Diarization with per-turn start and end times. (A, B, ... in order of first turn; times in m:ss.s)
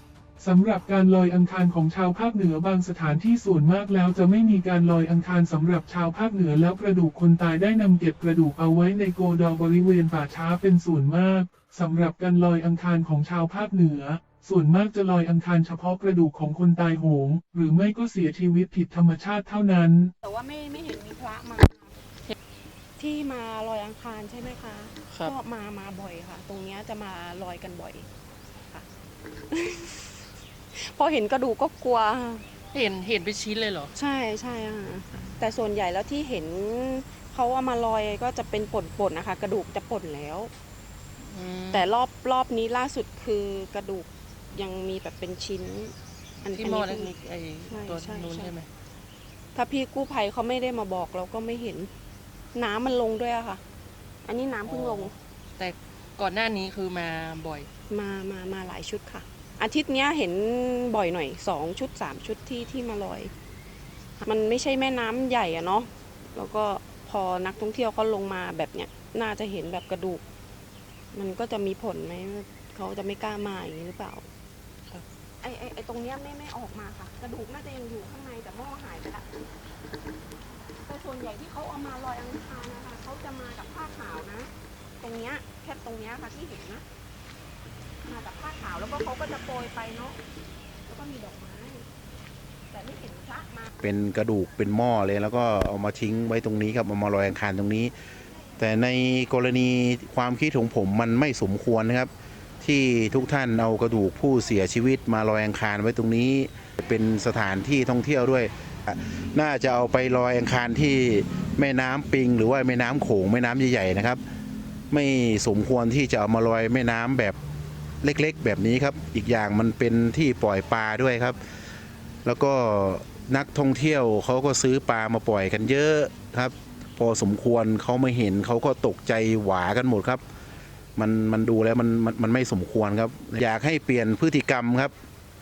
0:00.4-0:20.1 A
0:20.2-0:21.9 B
0:23.0-0:28.1 B
0:29.5-0:32.4 B
0:32.7-0:33.9 C
0:33.9-0:40.5 B
0:41.2-0:41.9 C
0:41.7-0:47.1 B
0:46.4-0:48.7 C
0:47.7-0:48.5 B
0:49.5-0:51.9 B
0:52.5-0:53.6 B
0:54.2-0:55.1 B
0:54.6-0:57.7 C
0:57.9-1:03.3 B
1:04.2-1:10.2 B
1:11.1-1:14.2 B
1:15.4-1:19.3 B
1:20.8-1:26.8 B
1:28.0-1:30.2 B
1:30.8-1:31.9 B
1:32.7-1:33.7 B
1:33.8-1:37.9 D
1:38.6-1:54.2 D
1:54.9-1:57.4 D
1:58.0-2:01.4 D
2:02.2-2:10.2 D
2:11.0-2:14.9 D